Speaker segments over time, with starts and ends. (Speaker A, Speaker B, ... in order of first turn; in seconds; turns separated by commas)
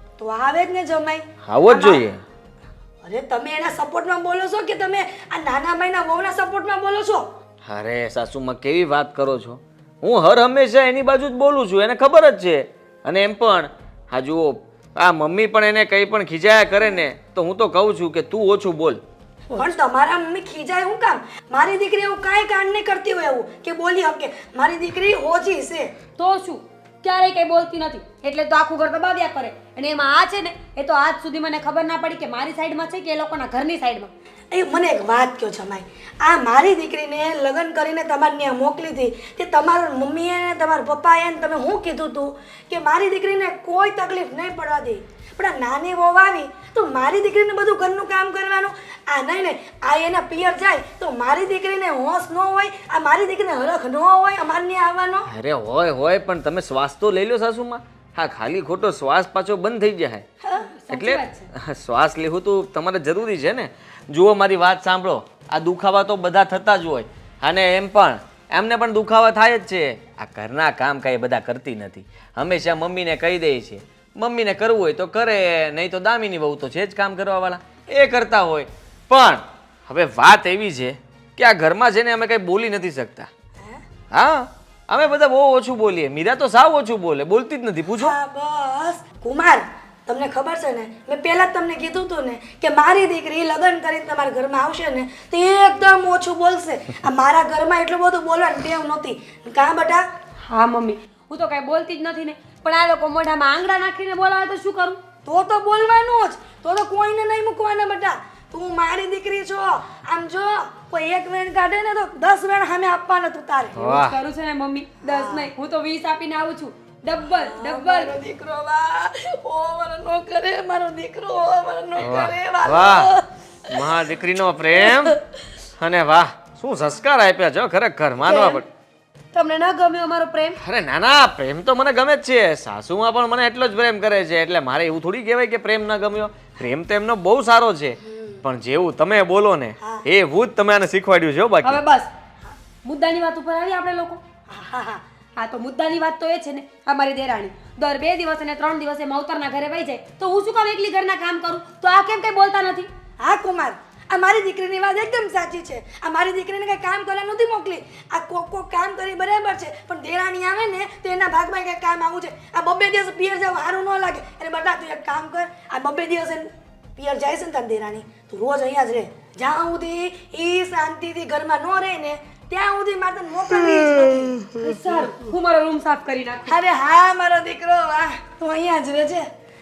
Speaker A: 0.2-2.0, Speaker B: 1.4-2.2, Speaker A: 3.0-7.2, Speaker B: 7.7-19.0, Speaker A: 19.5-25.9, Speaker C: 26.2-34.1, Speaker A: 34.5-55.3, Speaker B: 55.3-60.2, Speaker A: 60.4-60.7, Speaker C: 60.6-61.5, Speaker B: 60.9-83.3, Speaker B: 84.1-88.1, Speaker A: 88.0-100.1, Speaker C: 100.5-105.0, Speaker A: 105.2-113.9, Speaker B: 113.8-114.2, Speaker C: 113.8-118.2, Speaker A: 115.0-115.5, Speaker A: 117.3-123.2, Speaker B: 122.0-123.1, Speaker B: 123.7-125.2, Speaker B: 125.8-128.6, Speaker C: 128.3-128.6, Speaker C: 129.3-130.6, Speaker B: 130.6-141.8, Speaker C: 141.6-142.1, Speaker C: 142.8-144.2, Speaker A: 144.5-145.0, Speaker C: 145.4-152.9, Speaker A: 153.2-174.9, Speaker C: 174.5-176.6, Speaker A: 176.4-179.3